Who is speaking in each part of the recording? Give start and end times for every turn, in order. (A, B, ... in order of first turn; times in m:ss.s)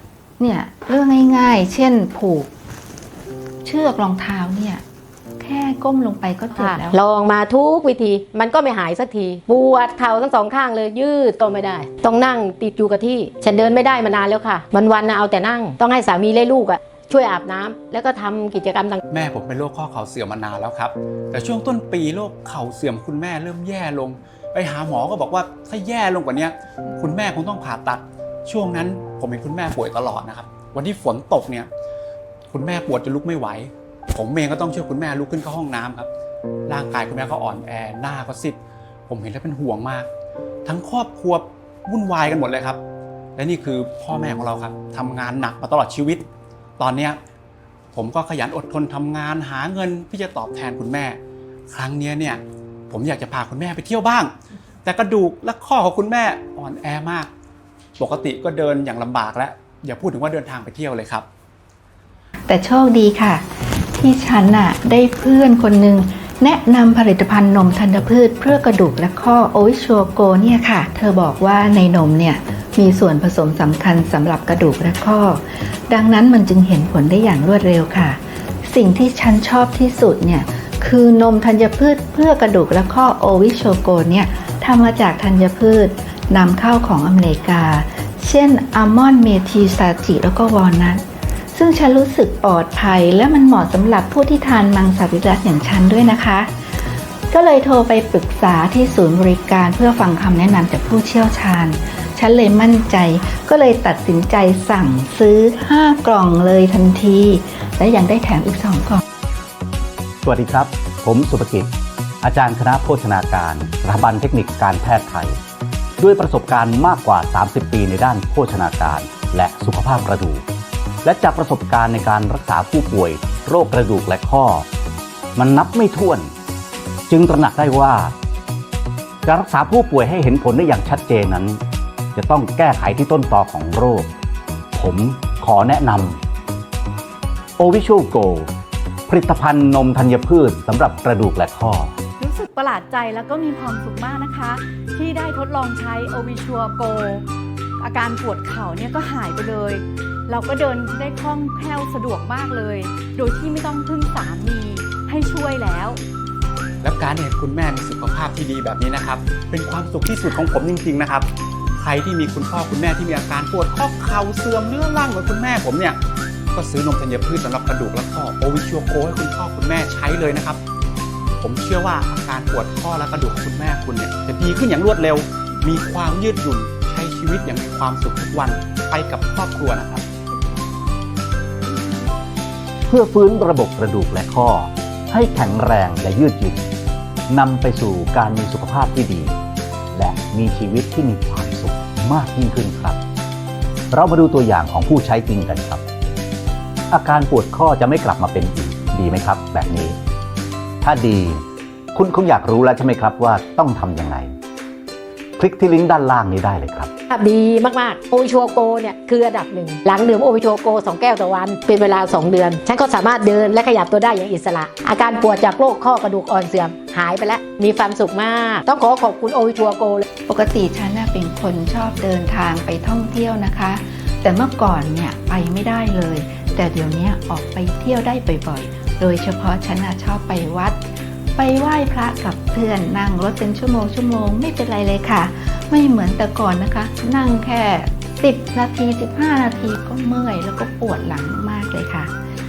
0:00.4-0:02.5 A
0:03.6-0:04.8 A
0:05.4-0:07.0 A
0:06.5-0:19.0 B
0:19.1-0:31.7 C
0:32.5-0:36.1 C
0:36.7-0:40.1 C
0:40.7-0:42.8 C
0:43.4-0:46.3 C
0:46.8-0:47.2 C
0:47.9-0:51.2 C
0:51.7-0:54.3 C
0:54.8-0:57.3 C
0:58.0-1:01.3 C
1:02.5-1:03.4 A
1:04.0-1:31.0 A
1:31.5-1:36.5 A
1:37.3-1:49.0 A
1:50.2-1:55.4 D
1:56.0-2:00.4 D
2:01.0-2:04.7 D
2:05.4-2:06.3 D
2:07.1-2:08.2 D
2:09.2-2:11.6 D
2:12.2-2:14.1 D
2:14.7-2:16.2 D
2:17.6-2:18.5 D
2:19.1-2:22.0 D
2:22.2-2:27.2 E
2:27.8-2:36.0 E
2:36.8-2:46.0 C
2:46.5-2:50.6 C
2:51.4-3:00.0 C
3:02.9-3:06.6 D
3:07.3-3:09.4 D
3:09.9-3:13.0 D
3:13.9-3:15.8 D
3:16.9-3:20.0 D
3:20.8-3:24.3 D
3:25.4-3:26.9 D
3:27.1-3:40.0 B
3:40.3-3:50.8 A
3:51.4-4:02.1 A